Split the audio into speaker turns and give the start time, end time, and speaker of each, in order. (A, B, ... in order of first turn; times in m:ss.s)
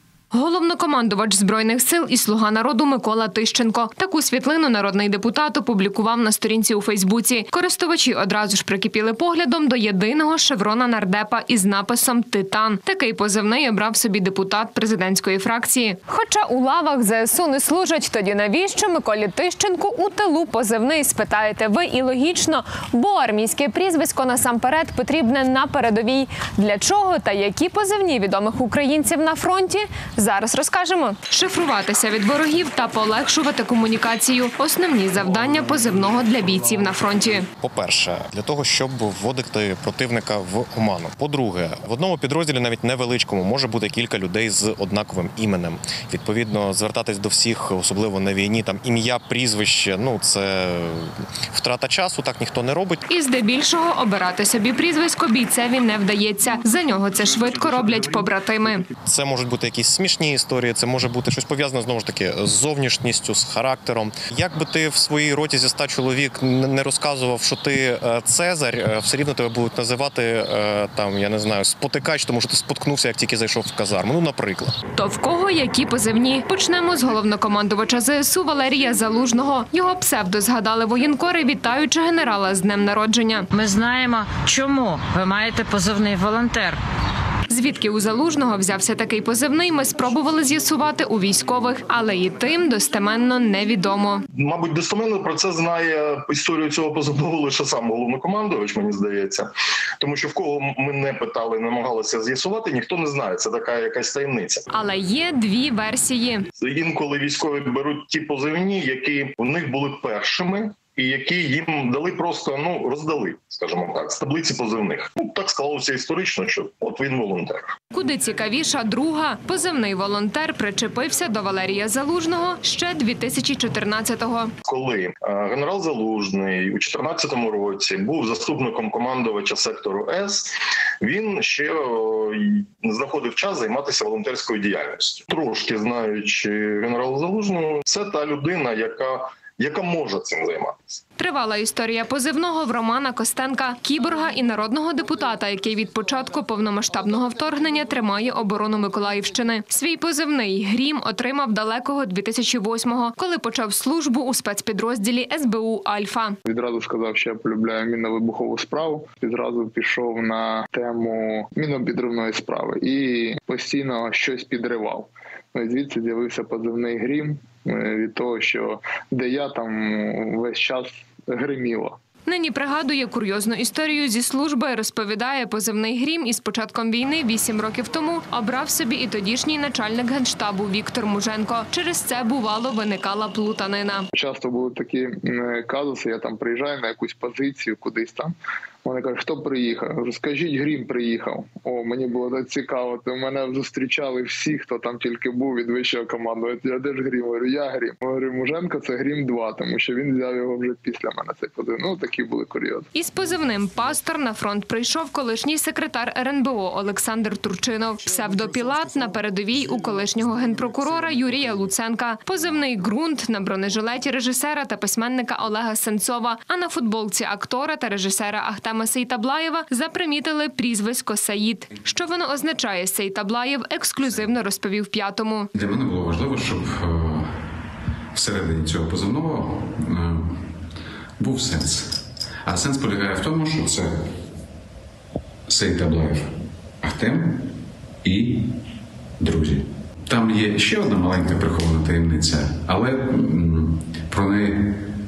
0:00.3-0:37.4 A
0:37.6-0:53.0 B
0:53.1-0:58.8 A
0:59.0-1:14.7 B
1:15.0-1:23.5 A
1:23.5-1:26.8 C
1:27.5-1:34.2 A
1:34.3-1:39.5 D
1:40.0-1:44.6 D
1:44.7-1:46.4 A
1:46.6-1:57.7 D
1:57.9-2:04.5 A
2:04.6-2:21.0 D
2:21.2-2:36.4 A
2:36.4-2:51.9 E
2:52.2-3:04.0 A
3:04.2-3:08.3 E
3:08.8-3:22.8 E
3:22.9-3:45.5 A
3:45.5-3:47.3 F
3:48.1-3:50.4 F
3:51.2-3:54.0 F
3:55.5-3:56.3 F
3:56.8-3:57.4 F
3:58.0-3:58.4 F
3:59.2-4:04.8 F